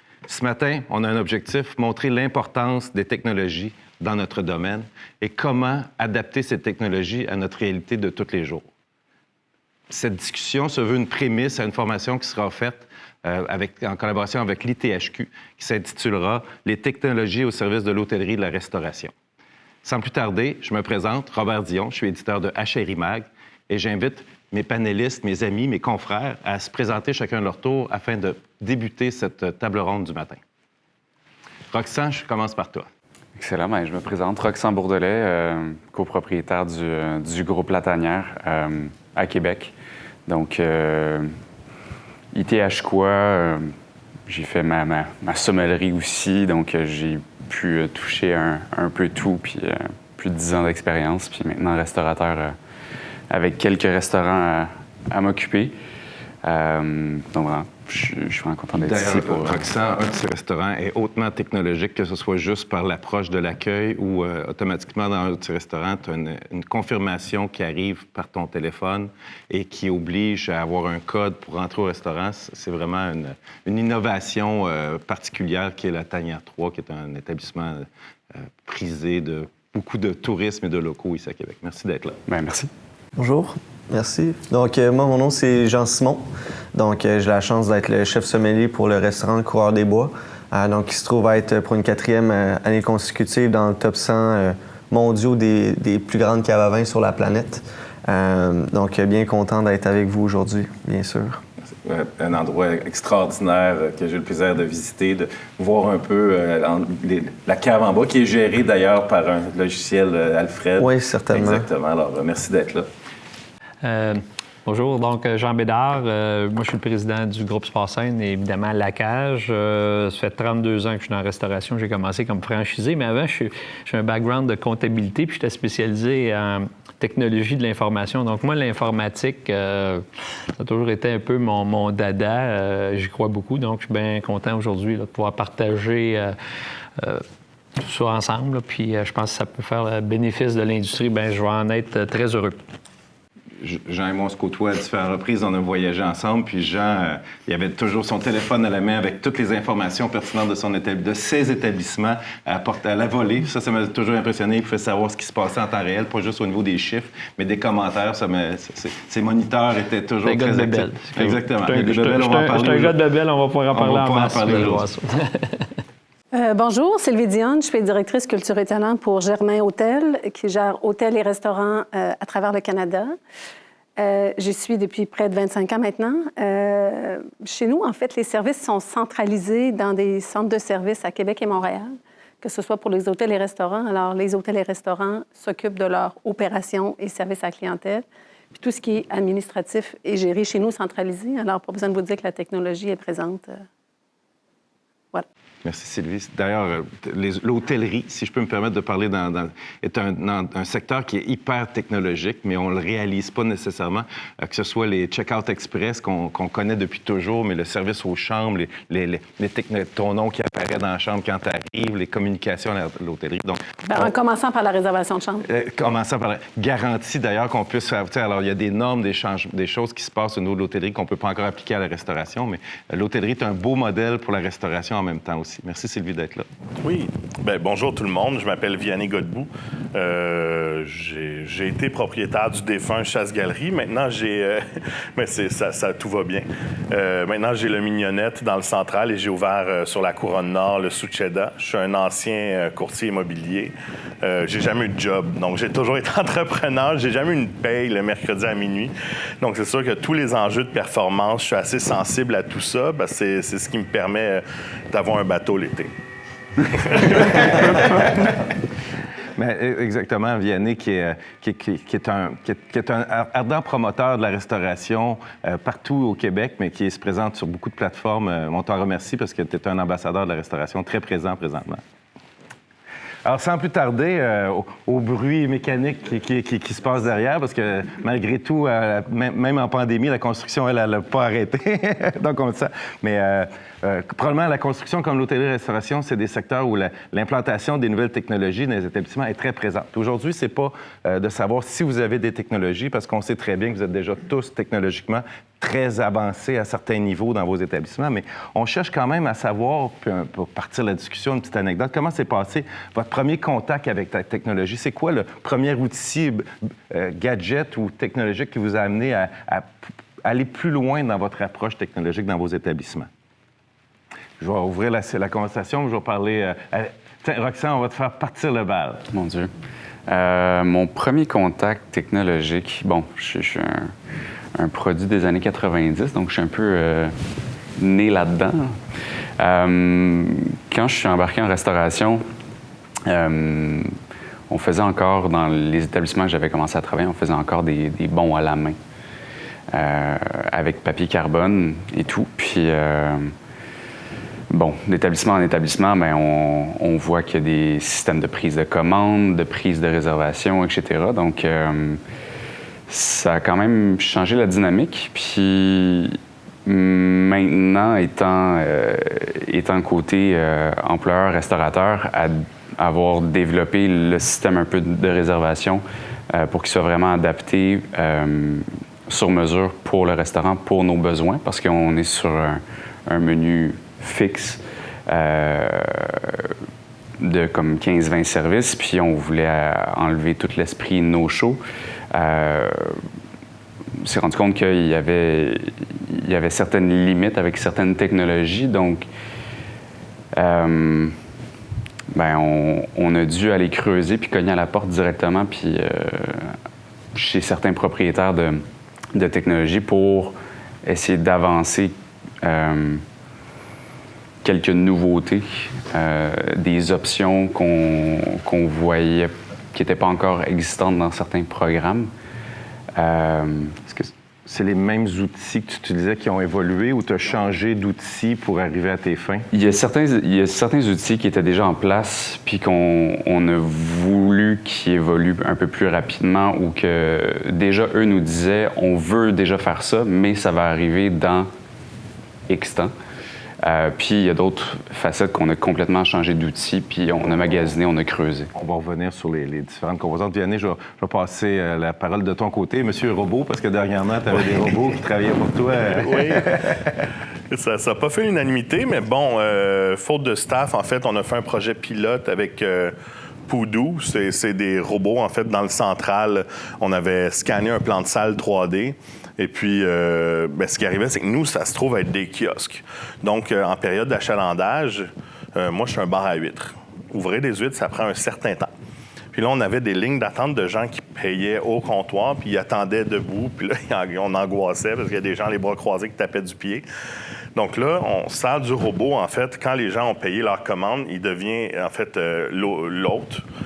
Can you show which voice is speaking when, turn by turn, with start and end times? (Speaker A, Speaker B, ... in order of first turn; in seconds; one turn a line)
Speaker A: 0.3-8.7
Speaker A: 9.9-19.1
Speaker A: 19.8-30.4
Speaker A: 31.7-32.9
Speaker B: 33.4-39.7
Speaker B: 40.3-41.3
Speaker B: 42.3-43.7
Speaker B: 44.3-52.6
Speaker B: 53.3-55.7
Speaker B: 56.4-59.7
Speaker A: 58.8-82.2
Speaker B: 82.3-82.7
Speaker C: 83.2-101.4
Speaker A: 101.7-112.9
Speaker C: 110.8-111.7
Speaker D: 113.8-130.1
Speaker D: 130.6-136.3
Speaker D: 137.0-137.2
Speaker D: 137.8-142.6
Speaker A: 143.6-163.0
Speaker D: 160.2-165.6
Speaker A: 163.7-164.9
Speaker E: 166.3-173.2
Speaker E: 174.0-193.7
Speaker A: 195.6-214.1
Speaker E: 213.9-215.4
Speaker A: 215.4-226.5
Speaker F: 226.8-255.9
Speaker F: 256.9-258.0
Speaker A: 256.9-258.5
Speaker A: 259.4-271.8
Speaker A: 273.2-313.1
Speaker A: 314.4-319.1
Speaker B: 319.1-319.5
Speaker B: 320.1-323.9
Speaker B: 324.6-327.2
Speaker B: 327.8-328.8
Speaker B: 329.4-332.2
Speaker B: 333.1-334.0
Speaker B: 334.5-338.8
Speaker B: 339.7-343.3
Speaker B: 344.5-352.0
Speaker B: 352.9-376.5
Speaker B: 377.2-381.6
Speaker B: 382.1-383.1
Speaker B: 384.0-389.1
Speaker B: 390.3-391.2
Speaker B: 392.1-396.6
Speaker B: 397.1-403.1
Speaker B: 404.4-412.1
Speaker B: 412.9-413.8
Speaker A: 413.9-419.5
Speaker B: 419.5-431.5
Speaker B: 432.5-432.9
Speaker B: 433.6-438.5
Speaker A: 438.6-447.1
Speaker F: 445.9-446.5
Speaker F: 447.5-452.9
Speaker F: 453.5-468.7
Speaker F: 469.3-476.8
Speaker F: 477.6-483.4